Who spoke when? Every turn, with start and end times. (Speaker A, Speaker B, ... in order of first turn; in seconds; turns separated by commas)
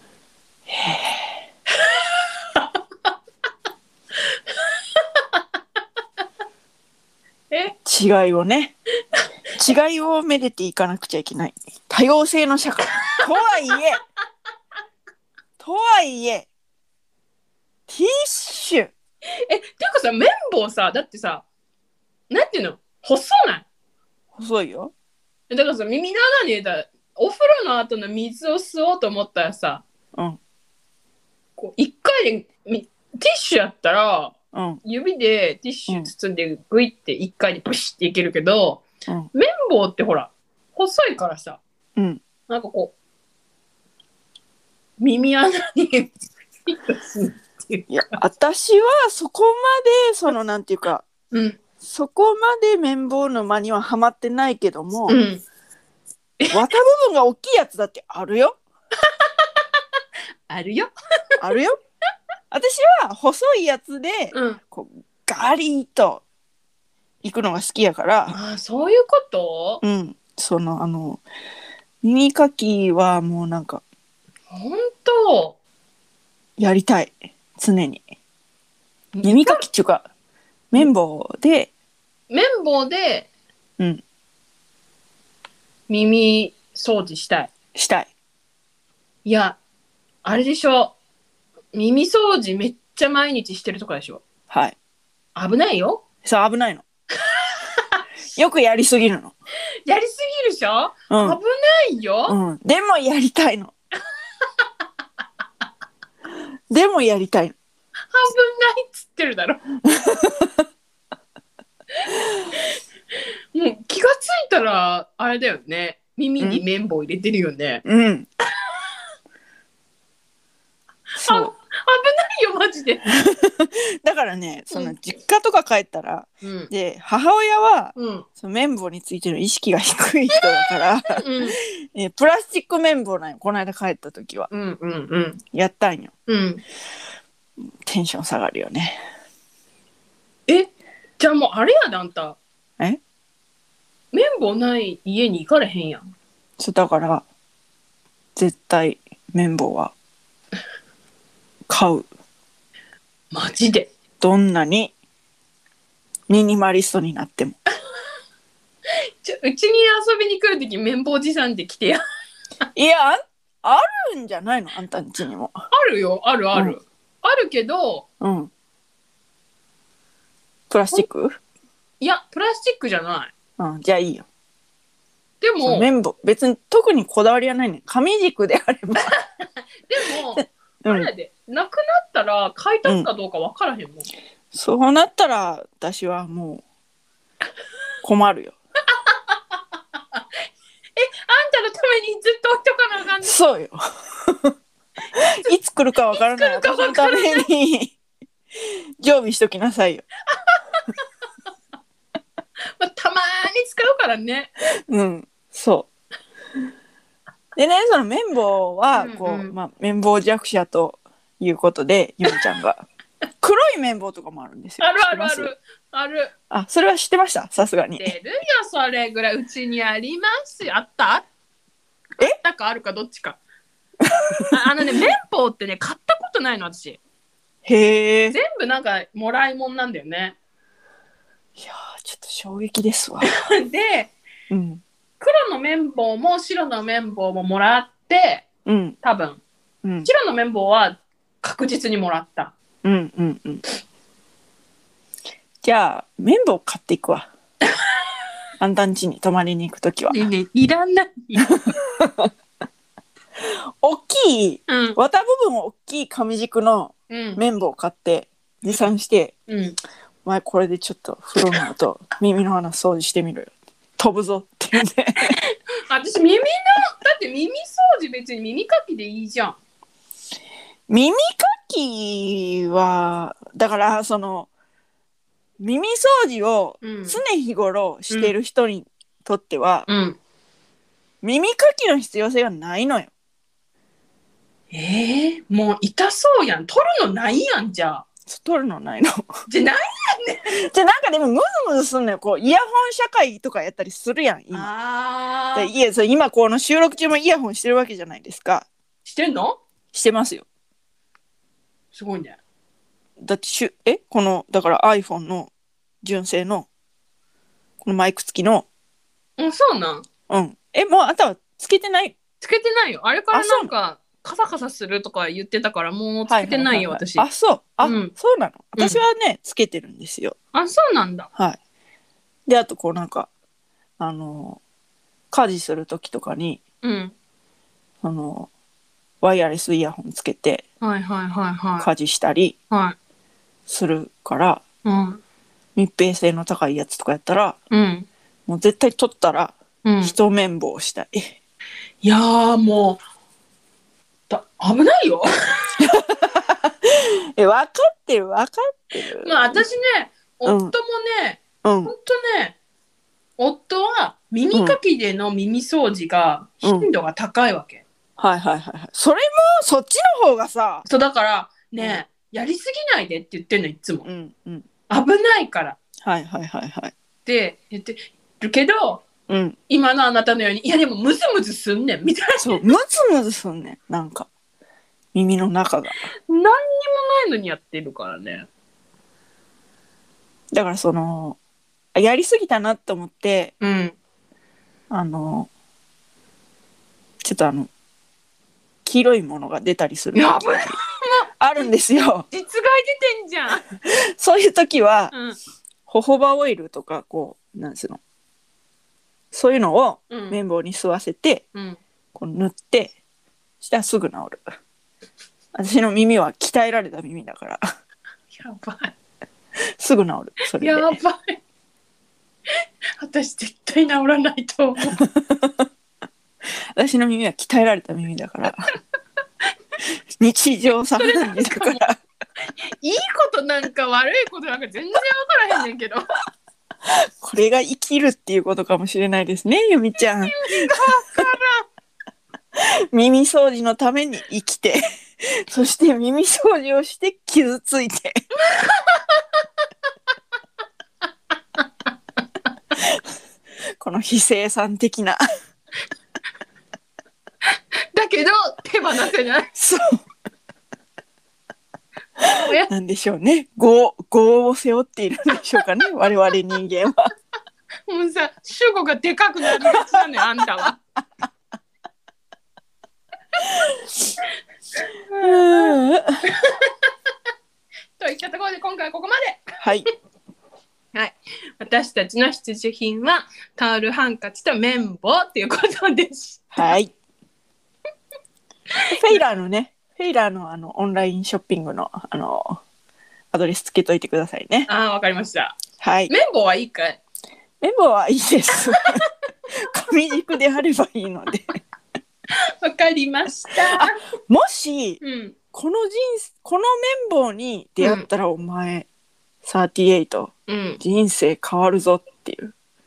Speaker A: 0.7-1.3, Speaker B: 1.8-2.7, Speaker B: 4.5-5.4, Speaker B: 7.5-7.8, Speaker A: 7.8-8.7, Speaker A: 9.6-14.0, Speaker B: 13.0-13.8, Speaker A: 15.6-16.5, Speaker A: 17.9-18.9, Speaker B: 19.5-21.4, Speaker B: 22.3-23.6, Speaker A: 24.4-24.9, Speaker B: 25.5-29.8, Speaker A: 30.1-30.4, Speaker B: 31.6-41.6, Speaker A: 34.5-34.8, Speaker A: 42.0-42.2, Speaker B: 42.5-42.9, Speaker B: 45.0-46.1, Speaker B: 46.7-48.2, Speaker A: 47.9-51.1, Speaker B: 51.3-51.6, Speaker A: 51.8-55.2, Speaker B: 55.1-55.4, Speaker A: 56.5-58.6, Speaker B: 59.1-59.5, Speaker B: 60.5-61.4, Speaker A: 61.4-61.8, Speaker A: 62.5-66.2, Speaker B: 64.3-64.6, Speaker A: 67.2-68.4, Speaker B: 68.3-69.8, Speaker A: 69.8-71.2, Speaker A: 72.0-73.8, Speaker B: 74.5-75.6, Speaker A: 76.6-78.0, Speaker B: 79.2-79.7, Speaker A: 79.2-80.1, Speaker A: 80.7-81.7, Speaker B: 82.3-83.3, Speaker B: 85.9-87.5, Speaker A: 87.8-88.1, Speaker B: 89.2-89.6, Speaker B: 90.2-91.0, Speaker B: 91.7-94.2, Speaker A: 94.5-94.8, Speaker B: 95.3-96.0, Speaker A: 96.2-96.8, Speaker B: 97.2-98.0, Speaker A: 98.4-99.3, Speaker B: 99.9-102.4, Speaker A: 101.1-101.4, Speaker A: 102.3-103.7, Speaker A: 106.7-107.6, Speaker B: 108.1-109.6, Speaker A: 109.8-110.6, Speaker B: 113.5-117.8, Speaker A: 117.8-118.3, Speaker B: 121.2-123.0, Speaker A: 121.2-121.5, Speaker A: 123.1-134.5, Speaker B: 126.4-126.7, Speaker B: 128.0-128.3, Speaker B: 130.3-131.6, Speaker B: 134.5-135.4, Speaker A: 135.5-136.1, Speaker B: 136.3-136.6, Speaker A: 137.8-139.0, Speaker B: 140.5-142.4, Speaker B: 144.1-146.1, Speaker A: 146.6-147.2, Speaker A: 148.4-149.9, Speaker A: 151.7-152.1, Speaker B: 153.3-153.9, Speaker A: 154.2-154.9, Speaker A: 156.3-157.6, Speaker B: 159.2-162.0, Speaker A: 162.8-165.5, Speaker B: 165.7-168.1, Speaker A: 168.2-168.5, Speaker A: 170.7-171.4, Speaker B: 172.0-173.3, Speaker A: 173.6-174.3, Speaker B: 175.4-175.9, Speaker A: 175.6-179.2, Speaker B: 179.0-184.1, Speaker A: 180.3-181.1, Speaker A: 182.8-183.1, Speaker A: 184.5-186.6, Speaker A: 188.0-188.6, Speaker B: 189.1-189.3, Speaker B: 191.0-193.4, Speaker A: 193.2-194.5, Speaker A: 195.2-198.0, Speaker B: 196.1-197.5, Speaker A: 198.6-200.1, Speaker B: 200.4-201.0, Speaker B: 202.8-204.5, Speaker A: 204.9-205.9, Speaker A: 207.6-212.8, Speaker B: 209.0-209.5, Speaker A: 213.4-215.5, Speaker B: 214.8-216.3, Speaker A: 216.5-218.2, Speaker B: 218.0-221.2, Speaker B: 222.2-223.4, Speaker A: 224.0-224.9, Speaker B: 224.5-227.0, Speaker A: 227.7-228.4, Speaker B: 228.3-230.4, Speaker A: 231.6-233.4, Speaker B: 233.2-234.1, Speaker A: 234.5-234.8, Speaker B: 235.2-238.4, Speaker A: 238.7-239.0, Speaker B: 239.0-239.4, Speaker A: 239.8-240.1, Speaker B: 240.0-242.5, Speaker A: 242.8-243.6, Speaker A: 245.6-247.3, Speaker A: 248.6-250.2, Speaker B: 250.1-251.8, Speaker A: 251.9-252.3, Speaker A: 253.4-259.4, Speaker B: 254.7-255.0, Speaker B: 257.1-257.4, Speaker B: 259.5-259.8, Speaker A: 260.2-265.4, Speaker B: 265.3-269.6, Speaker A: 270.9-274.5, Speaker A: 275.6-279.9, Speaker B: 276.8-277.2, Speaker B: 279.9-280.2, Speaker A: 281.2-283.1, Speaker B: 284.7-288.1, Speaker A: 288.3-289.3, Speaker B: 289.5-290.6, Speaker A: 290.5-294.7, Speaker B: 294.5-295.7, Speaker A: 295.6-298.7, Speaker B: 299.1-299.6, Speaker A: 299.9-300.5, Speaker B: 301.9-302.4, Speaker A: 303.2-305.5, Speaker A: 306.0-306.7, Speaker A: 307.8-308.7, Speaker B: 309.4-310.1, Speaker A: 310.3-312.2, Speaker B: 312.4-317.3, Speaker A: 313.3-313.7, Speaker A: 316.3-320.4, Speaker B: 317.8-318.1, Speaker B: 318.8-319.0, Speaker B: 320.5-321.3, Speaker A: 322.5-323.3, Speaker A: 324.0-324.6, Speaker A: 325.3-326.6, Speaker B: 326.8-327.1, Speaker A: 328.0-328.5, Speaker A: 329.2-330.6, Speaker B: 330.8-331.9, Speaker A: 331.8-332.6, Speaker B: 332.7-333.0, Speaker A: 333.7-334.6, Speaker B: 334.9-335.2, Speaker A: 335.8-337.6, Speaker B: 337.7-338.1, Speaker A: 338.5-341.4, Speaker B: 339.8-340.1, Speaker B: 342.0-343.0, Speaker B: 344.3-345.8, Speaker A: 345.8-349.6, Speaker B: 349.2-352.6, Speaker A: 350.4-350.8, Speaker A: 351.6-351.9, Speaker B: 353.4-357.8, Speaker A: 354.5-354.8, Speaker A: 356.6-356.9, Speaker A: 358.2-360.8, Speaker B: 360.9-364.1, Speaker A: 364.1-364.7, Speaker B: 364.9-365.8, Speaker A: 366.0-366.9, Speaker B: 367.2-369.1, Speaker A: 369.3-369.6, Speaker B: 369.7-372.7, Speaker A: 372.4-374.3, Speaker A: 375.1-376.0, Speaker B: 376.3-378.5, Speaker A: 380.5-381.4, Speaker A: 381.9-383.5, Speaker B: 383.6-384.0, Speaker A: 384.9-385.5, Speaker A: 387.2-387.7, Speaker A: 388.9-390.8, Speaker B: 390.1-391.7, Speaker A: 391.4-392.3, Speaker B: 392.3-393.6, Speaker A: 393.8-395.1, Speaker B: 395.1-395.4, Speaker A: 395.9-398.0, Speaker A: 399.3-401.4, Speaker B: 400.1-400.4, Speaker B: 401.6-401.8, Speaker A: 402.1-402.9, Speaker A: 403.6-404.4, Speaker A: 405.5-407.7, Speaker B: 408.3-408.9, Speaker A: 409.8-411.0, Speaker B: 410.6-411.4, Speaker B: 413.0-415.0, Speaker A: 414.9-415.7, Speaker A: 416.8-418.7, Speaker A: 420.2-422.0, Speaker B: 421.0-421.8, Speaker B: 422.4-426.1, Speaker A: 426.9-431.3, Speaker B: 430.2-431.6, Speaker A: 432.6-438.2, Speaker B: 438.4-439.2, Speaker A: 443.8-445.2, Speaker B: 447.9-449.5, Speaker A: 449.6-450.0, Speaker B: 452.2-452.7, Speaker A: 452.2-457.1, Speaker B: 457.9-460.8, Speaker A: 459.5-460.1, Speaker A: 463.4-463.8, Speaker B: 465.1-466.7, Speaker A: 465.2-466.2, Speaker B: 468.0-469.5, Speaker A: 469.6-469.9, Speaker B: 470.9-476.8, Speaker A: 476.5-476.9, Speaker B: 478.8-479.2, Speaker A: 478.9-482.6, Speaker A: 483.3-484.7, Speaker B: 484.7-485.6, Speaker A: 485.8-486.1, Speaker B: 486.1-487.0, Speaker A: 487.6-491.6, Speaker B: 492.3-494.0, Speaker A: 493.6-495.0, Speaker B: 495.0-495.4, Speaker A: 495.5-498.9, Speaker B: 497.8-498.1, Speaker A: 499.4-502.5, Speaker B: 500.5-500.8